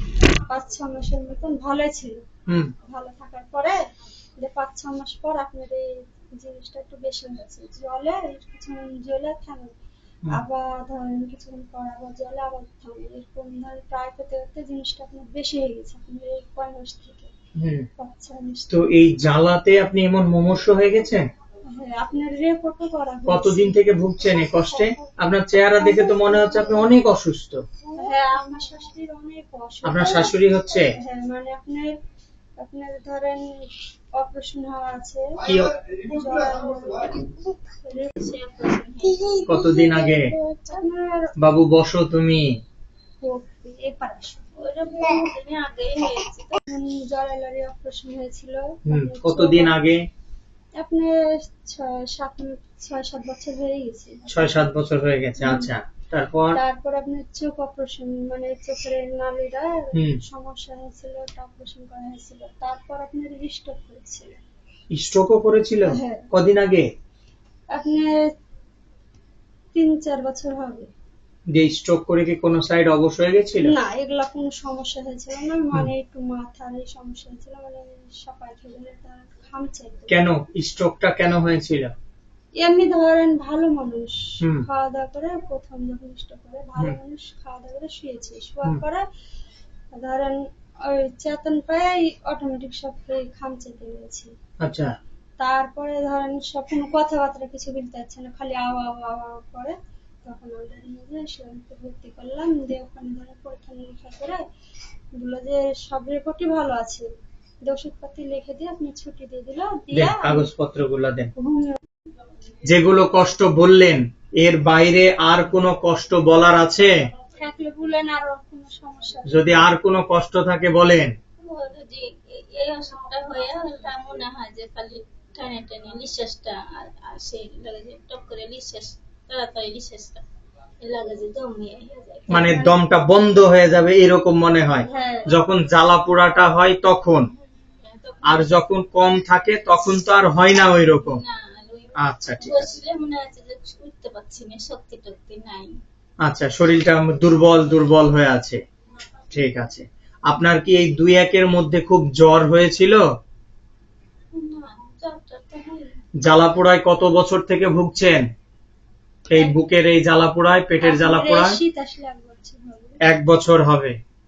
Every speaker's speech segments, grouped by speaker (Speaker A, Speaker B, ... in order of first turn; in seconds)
Speaker A: 0.5-2.2, 2.8-3.8, 4.4-9.7, 10.3-17.3, 18.0-18.7, 21.7-23.8, 24.7-26.9, 28.0-31.9, 32.6-38.2, 39.1-41.3, 43.2-44.5, 46.6-49.8, 50.8-54.7, 55.4-55.7, 56.5-64.4, 65.8-66.2, 67.7-68.2, 69.7-70.9, 73.6-80.2, 82.6-89.0, 89.9-94.3, 95.4-104.4, 105.2-107.1, 107.7-110.5, 111.4-111.8, 117.4-119.7, 132.3-132.7, 134.8-135.3, 160.8-163.0
Speaker B: 17.6-17.9, 18.7-21.2, 23.3-27.6, 29.9-30.9, 35.5-35.7, 39.5-40.3, 41.4-42.5, 48.9-50.0, 54.3-56.6, 64.9-66.9, 71.5-73.7, 80.1-81.9, 84.4-84.7, 94.6-94.9, 109.9-111.3, 112.6-116.9, 119.3-121.1, 132.3-137.3, 138.2-141.2, 142.0-142.7, 146.2-148.6, 149.3-153.0, 156.2-158.2, 159.3-161.6, 163.1-163.9
Speaker C: 38.0-39.5, 44.6-46.6, 121.4-130.2, 130.8-132.6, 137.6-138.5, 141.0-145.7, 154.3-155.9